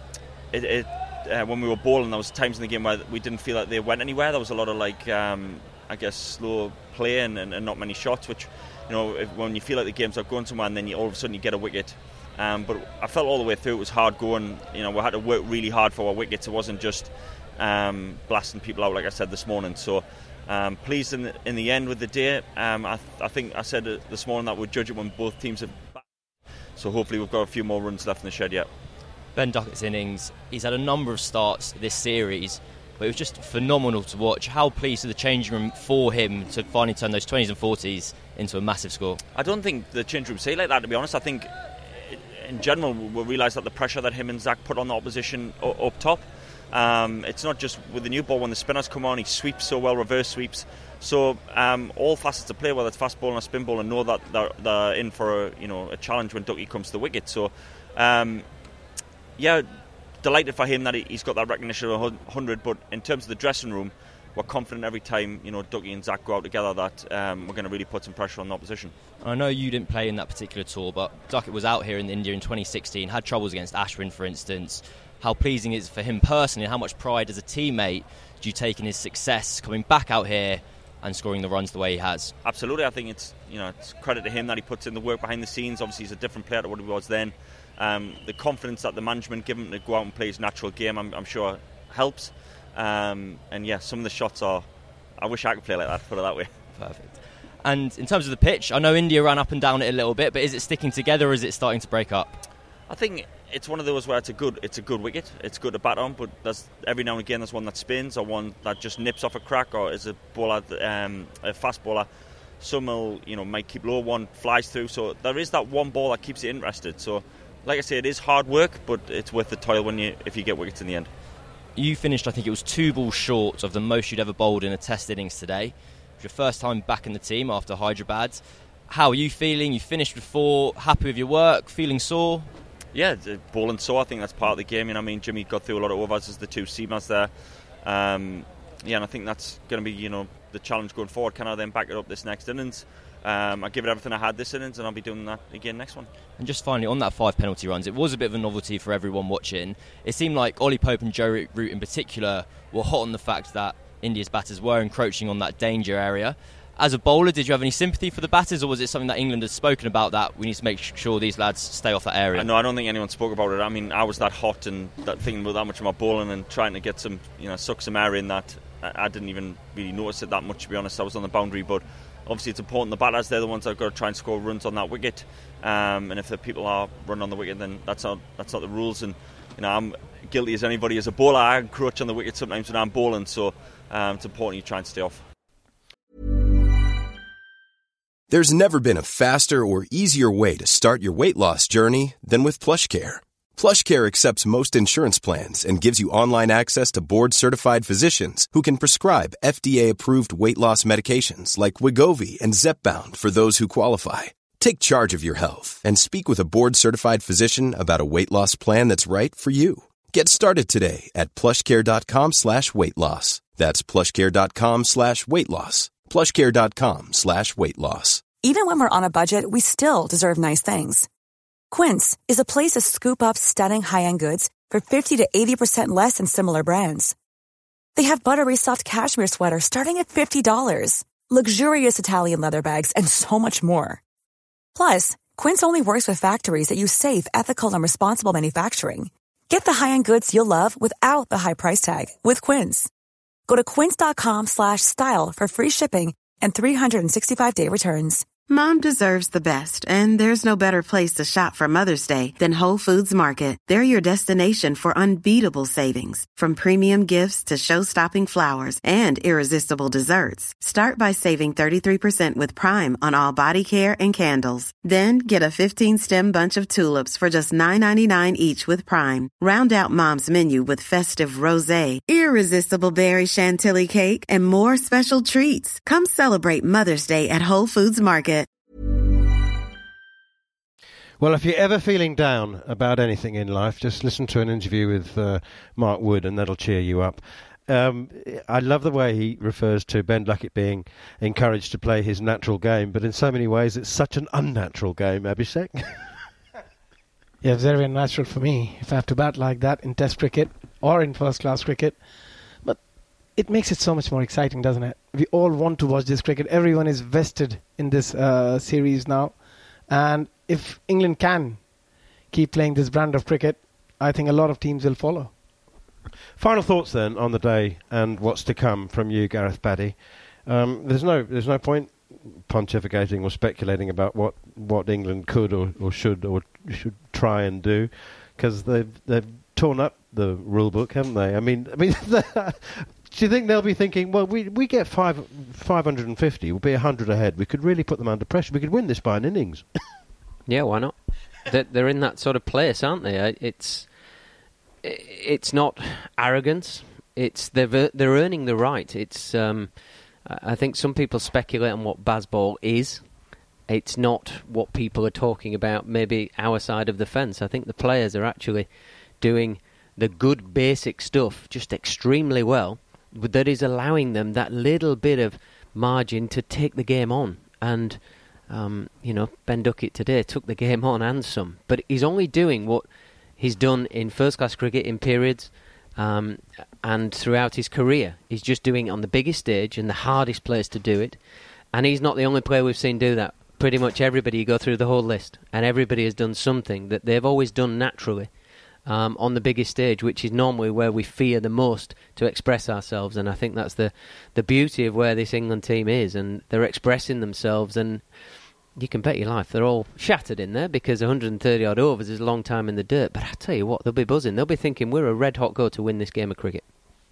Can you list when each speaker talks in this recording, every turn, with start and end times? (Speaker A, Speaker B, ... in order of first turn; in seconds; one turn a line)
Speaker A: 0.5-26.0
Speaker A: 26.8-28.7
Speaker B: 29.3-39.2
Speaker A: 39.4-58.4
Speaker A: 59.4-59.7
Speaker A: 60.2-68.9
Speaker B: 69.2-82.3
Speaker A: 82.4-94.7
Speaker A: 95.2-96.5
Speaker B: 96.8-102.4
Speaker A: 102.9-112.1
Speaker A: 112.6-121.1
Speaker B: 121.8-132.5
Speaker A: 132.9-137.3
Speaker A: 137.8-146.1
Speaker B: 146.4-162.5
Speaker A: 162.3-185.2
Speaker C: 188.3-218.3
Speaker D: 218.4-221.1
Speaker D: 221.7-227.1
Speaker D: 227.9-234.0
Speaker D: 234.7-242.9
Speaker D: 243.5-248.3
Speaker E: 248.5-278.5
Speaker F: 281.2-296.1
Speaker G: 297.4-302.0
Speaker G: 302.6-311.7
Speaker G: 312.3-315.3
Speaker F: 316.4-339.6
Speaker H: 340.4-343.9
Speaker H: 344.8-353.0
Speaker H: 353.7-358.7
Speaker H: 359.2-372.9
Speaker H: 373.4-381.2
Speaker H: 381.7-388.3
Speaker H: 388.8-398.1
Speaker H: 398.7-406.6